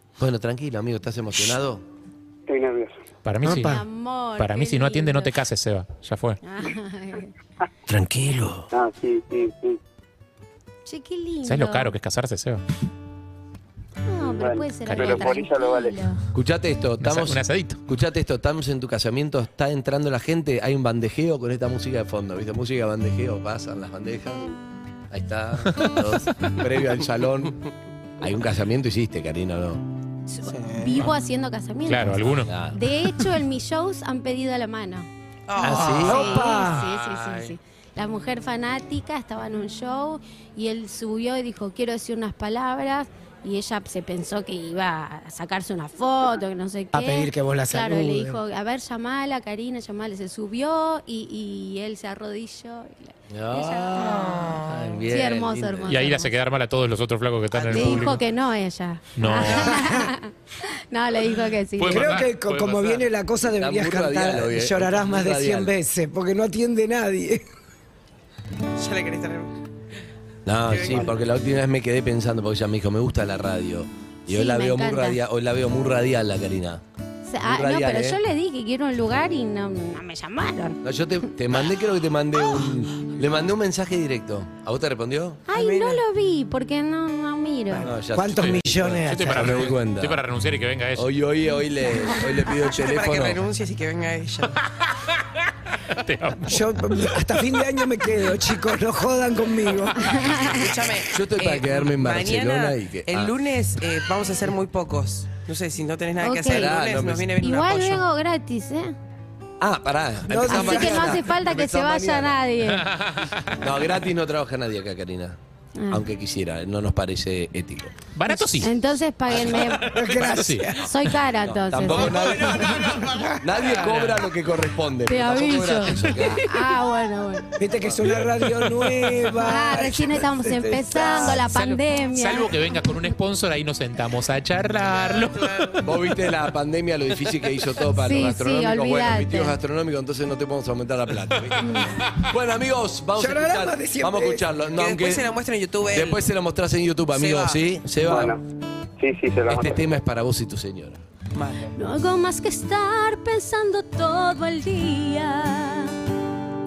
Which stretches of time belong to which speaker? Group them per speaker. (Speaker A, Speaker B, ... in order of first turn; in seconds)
Speaker A: 0.2-1.8, 7.9-8.7, 16.3-24.5, 25.1-27.6, 28.2-29.8, 32.4-32.8, 35.6-36.3, 53.3-56.1, 63.6-65.7, 70.5-76.8, 77.4-78.2, 80.8-85.4, 87.8-90.2, 91.0-93.4, 101.1-103.3, 106.4-107.3, 109.6-112.4, 113.6-115.4, 115.9-118.0, 121.4-126.5, 130.4-131.4, 135.8-145.3, 145.9-148.4, 149.5-151.0
Speaker B: 2.5-3.0, 8.7-9.8, 14.4-16.0, 148.0-148.4, 149.0-149.9
Speaker C: 3.2-3.8, 4.4-6.4, 11.4-12.6, 14.9-15.4, 17.0-17.8, 31.9-32.5, 36.9-37.5, 55.9-58.2, 59.2-60.0, 61.8-63.1, 88.4-91.1, 95.9-97.2, 112.8-113.4, 118.2-118.7, 119.9-120.7, 131.3-135.8
Speaker D: 3.4-3.8, 30.5-31.0, 35.6-36.9, 46.9-48.4, 59.7-60.1, 61.9-67.4, 88.1-89.6, 96.5-100.1, 110.3-111.2, 119.5-120.9, 122.1-123.4, 127.6-131.3, 143.2-144.4
Speaker E: 3.5-5.3, 6.4-7.3, 10.9-11.9, 14.1-16.2, 30.3-35.1, 35.8-54.4, 55.1-56.3, 57.7-60.3, 60.9-62.2, 74.3-75.2, 77.2-80.8, 85.5-87.9, 100.0-100.6, 106.2-106.7, 107.4-109.0, 110.5-112.9, 115.8-116.0, 118.6-120.0, 120.7-122.3, 125.1-127.5, 129.4-132.5, 137.9-139.6, 151.8-156.0
Speaker F: 35.5-36.0, 57.5-58.0, 68.8-69.5, 70.7-71.1, 85.5-86.0, 92.7-94.6, 100.5-108.0, 135.2-135.8, 144.8-146.2, 147.1-147.8, 151.3-151.7